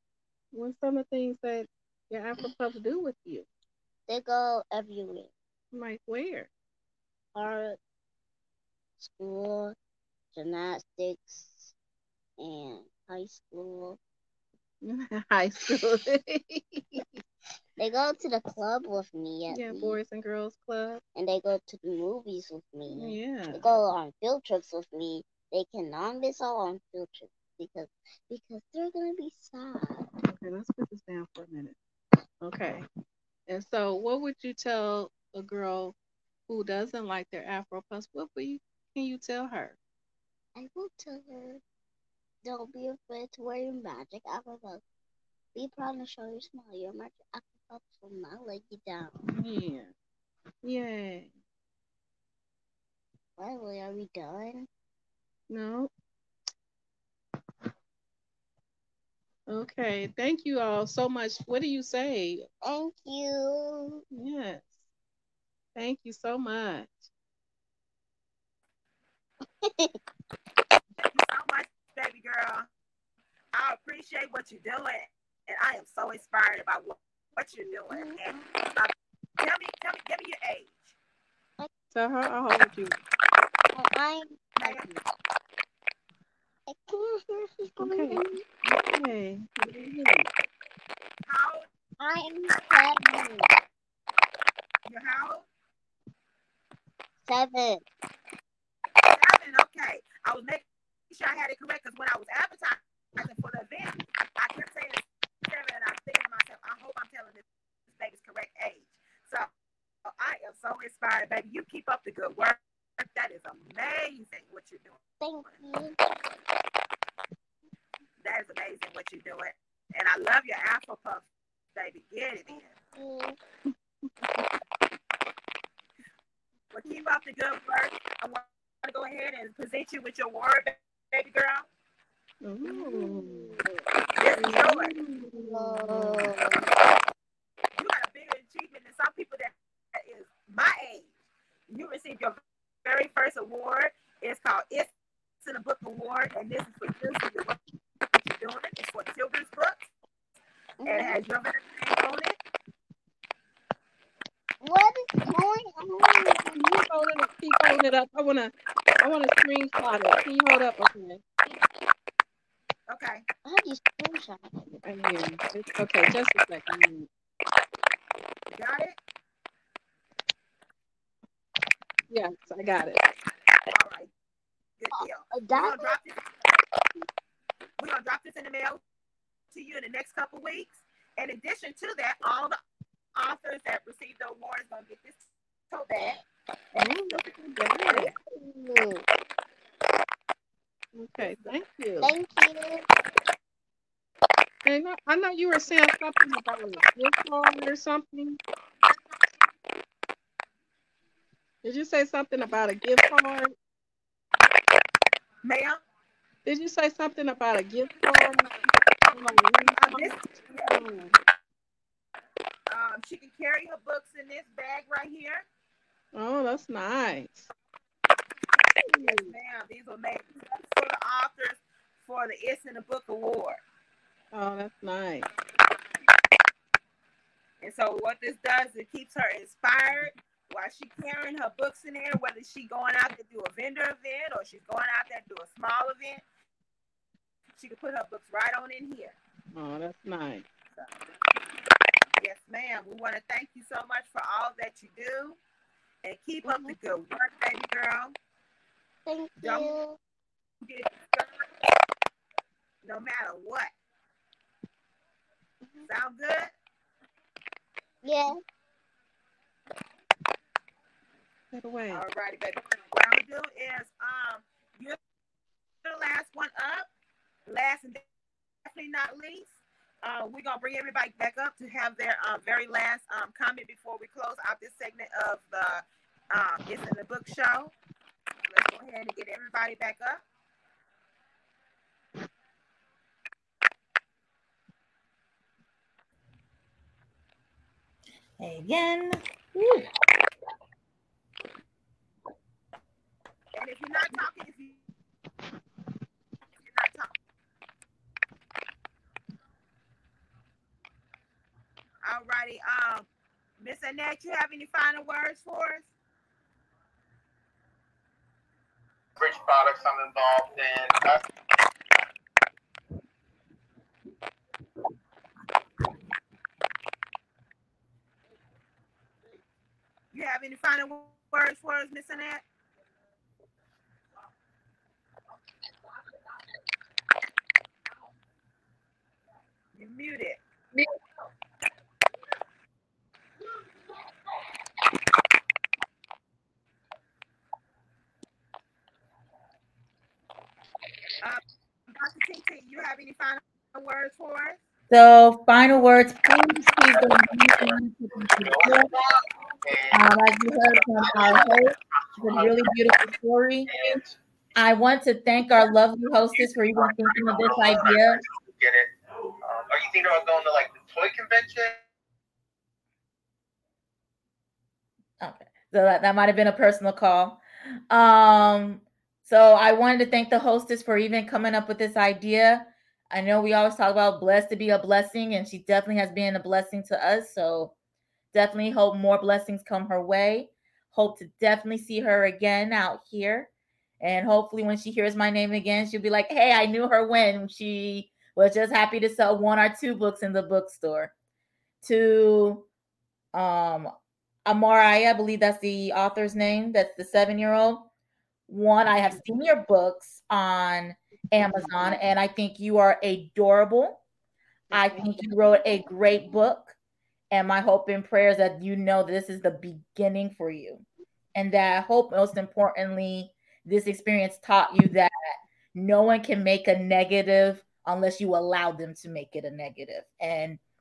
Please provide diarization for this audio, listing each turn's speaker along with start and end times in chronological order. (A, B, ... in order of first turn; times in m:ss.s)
0:00.5-0:03.5 A
0:04.1-0:05.3 B
0:05.7-0:06.5 A
0:07.3-0:07.8 B
0:09.0-0:09.8 B
0:10.3-0:11.7 B
0:12.4-0:14.0 B
0:14.8-0:17.0 A
0:17.8-0:20.0 B
0:19.5-0:21.0 A
0:21.1-0:30.1 B
0:22.9-0:23.6 A
0:30.2-0:31.8 A
0:32.4-0:32.8 A
0:33.5-0:35.9 A
0:36.5-0:39.8 A
0:40.6-0:41.6 B
0:42.4-0:44.8 B
0:45.5-0:49.2 B
0:49.2-0:49.9 A
0:50.6-0:51.3 A
0:53.4-0:54.7 B
0:55.5-0:55.9 A
0:59.5-1:02.5 A
1:02.6-1:04.0 B
1:04.1-1:04.8 A
1:05.8-1:07.1 A
1:09.6-1:10.0 B
1:11.0-1:12.7 C
1:13.5-1:21.0 C
1:17.9-1:18.4 B
1:21.9-1:23.0 A
1:23.7-1:25.0 B
1:24.6-1:24.9 C
1:26.7-1:28.4 B
1:27.8-1:30.3 A
1:31.2-1:31.6 C
1:32.0-1:33.5 B
1:34.8-1:35.4 C
1:37.2-1:37.8 B
1:39.1-1:49.5 C
1:50.0-1:55.6 C
1:55.2-1:56.0 B
1:58.2-2:02.7 C
2:02.9-2:03.4 B
2:06.7-2:11.6 C
2:12.4-2:13.5 A
2:12.6-2:13.8 B
2:14.2-2:14.9 C
2:14.4-2:16.3 A
2:15.4-2:16.7 B
2:17.7-2:21.1 C
2:21.7-2:24.9 C
2:25.4-2:27.6 C
2:28.2-2:29.9 C
2:30.8-2:31.2 B
2:30.8-2:32.4 C
2:34.6-2:36.6 B
2:36.5-2:41.2 A
2:42.9-2:43.2 C
2:43.4-2:44.8 B
2:44.8-2:47.1 A
2:48.5-2:49.0 C
2:52.1-2:53.0 A
2:53.7-2:54.1 C
2:54.8-2:56.4 C
2:54.9-2:56.0 B
2:57.8-2:58.8 C
2:59.5-3:02.6 C
3:03.2-3:06.2 C
3:06.7-3:07.3 C
3:06.8-3:08.1 A
3:07.9-3:09.0 B
3:10.9-3:12.1 A
3:12.0-3:12.8 B
3:14.6-3:18.4 A
3:21.6-3:23.5 A
3:25.4-3:25.8 C
3:26.4-3:31.1 A
3:29.7-3:30.8 C
3:32.7-3:35.4 C
3:36.1-3:37.5 A
3:38.9-3:39.3 A
3:39.0-3:43.6 C
3:44.3-3:45.3 A
3:47.6-3:56.2 C
3:57.6-3:59.2 C
3:59.5-4:00.4 A
4:02.2-4:05.4 C
4:06.0-4:08.1 C
4:06.4-4:06.8 B
4:09.0-4:10.0 B
4:09.4-4:09.8 C
4:10.6-4:11.4 C
4:12.8-4:13.7 C
4:15.9-4:16.5 C
4:18.0-4:18.4 B
4:21.5-4:22.0 A
4:21.9-4:25.0 C
4:25.8-4:26.9 C
4:27.5-4:28.0 C
4:28.6-4:37.7 C
4:38.5-4:40.2 C
4:48.4-4:49.9 D
4:53.5-4:54.8 C
4:56.6-4:57.1 C
5:02.0-5:03.1 C
5:03.6-5:05.9 C
5:09.2-5:11.2 E
5:20.1-5:22.4 C
5:29.7-5:30.4 C
5:41.2-5:44.6 C
5:44.9-5:49.0 D
5:49.9-5:53.8 D
5:51.0-5:51.3 E
5:54.5-5:58.2 D
5:56.7-5:58.8 E
5:59.5-6:01.8 E
6:05.2-6:17.7 D
6:18.3-6:23.5 D
6:24.0-6:31.1 D
6:31.8-6:32.7 D
6:33.3-6:33.9 D
6:34.4-6:37.9 D
6:38.5-6:44.0 D
6:41.4-6:41.7 A
6:44.7-6:46.8 D
6:47.3-6:50.8 D
6:51.3-6:55.1 D
6:55.7-7:00.6 D